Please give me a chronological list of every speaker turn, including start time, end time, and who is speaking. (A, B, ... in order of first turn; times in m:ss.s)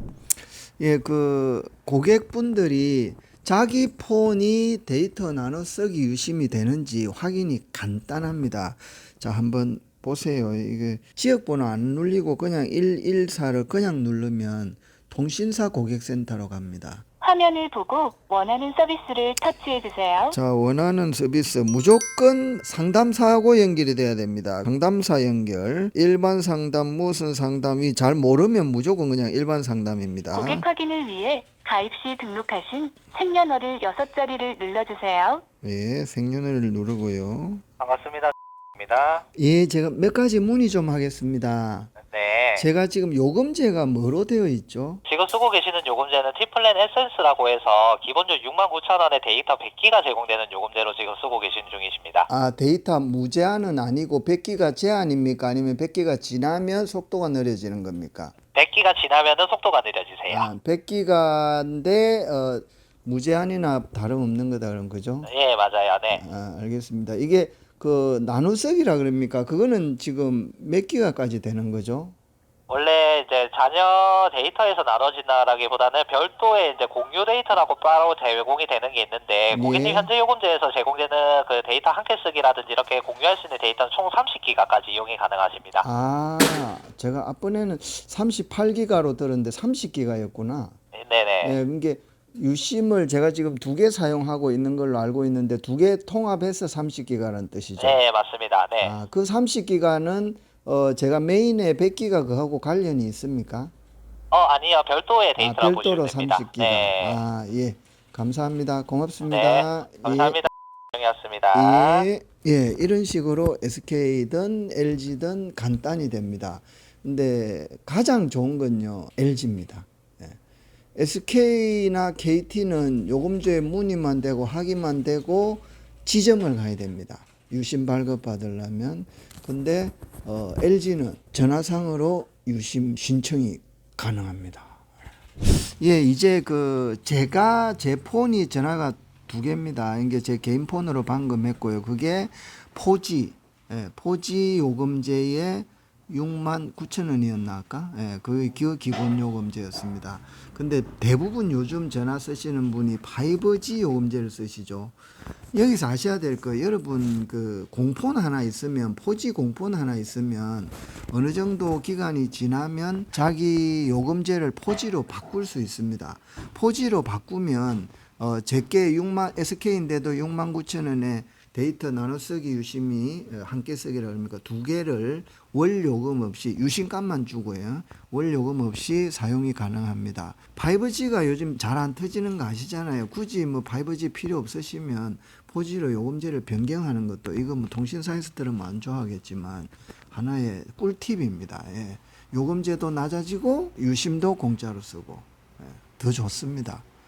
0:00.8-0:17.0 A
0:17.2-0:20.4 B
0:20.3-0:30.6 A
0:30.3-0:35.4 B
0:35.6-0:37.6 A
0:37.8-0:39.2 C
0:39.4-0:41.9 A
0:42.0-0:42.7 C
0:42.6-0:45.0 A
0:45.1-0:52.3 C
0:52.3-0:58.3 A
0:58.6-1:00.5 C
1:00.3-1:05.3 A
1:05.3-1:06.2 C
1:06.1-1:12.2 A
1:12.7-1:25.8 C
1:19.5-1:20.1 A
1:25.8-1:30.8 A
1:30.9-1:31.6 C
1:31.4-1:38.0 A
1:37.8-1:39.0 C
1:38.8-1:43.7 A
1:44.3-1:47.2 C
1:45.4-1:50.5 A
1:49.2-1:52.1 C
1:51.5-2:00.4 A
2:01.0-2:14.8 A
2:15.6-2:35.0 A
2:35.5-3:16.8 A